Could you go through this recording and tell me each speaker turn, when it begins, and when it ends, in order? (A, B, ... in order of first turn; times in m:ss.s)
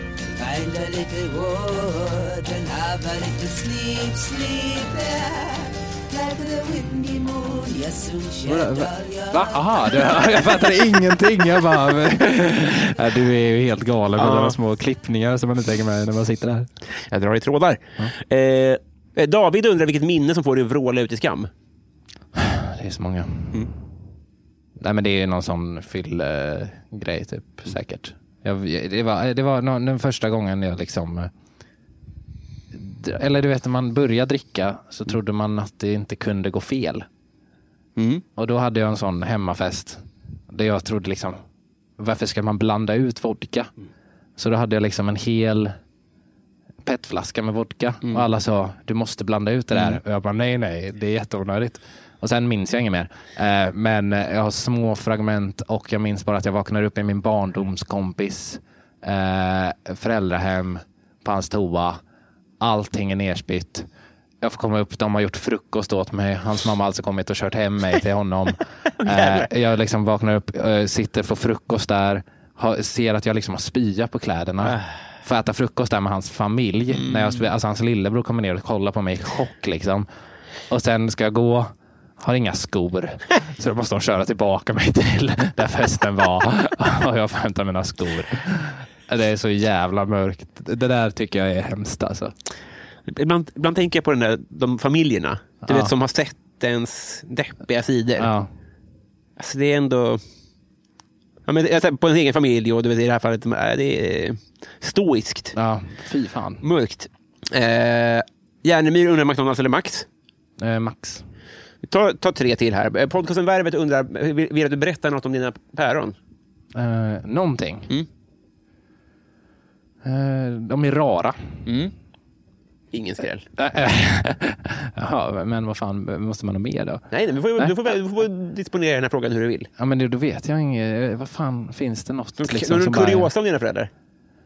0:00.4-0:10.7 A
0:08.4-0:16.7 B
0:14.2-0:14.6 C
0:17.1-0:21.5 C
0:22.4-0:23.6 B
0:24.8-0:31.3 B
0:32.7-0:37.0 B
0:38.0-0:38.2 C
0:38.4-0:41.4 B
0:42.0-0:43.7 B
0:44.4-0:45.7 B
0:46.8-1:02.0 B
0:49.7-0:50.0 C
1:02.6-1:03.9 B
1:04.4-1:20.0 B
1:09.0-1:09.5 C
1:16.9-1:17.4 C
1:20.7-1:32.3 B
1:33.1-1:38.3 C
1:35.6-1:35.9 B
1:38.2-1:38.5 B
1:39.4-1:40.2 C
1:41.4-1:45.5 C
1:45.5-1:46.6 B
1:46.6-1:50.1 C
1:50.6-1:51.2 B
1:51.8-1:56.2 C
1:56.7-1:57.9 B
2:00.0-2:01.6 B
2:01.6-2:01.9 C
2:02.9-2:03.4 C
2:03.6-2:07.8 B
2:07.1-2:09.7 C
2:09.8-2:13.3 B
2:12.4-2:13.9 C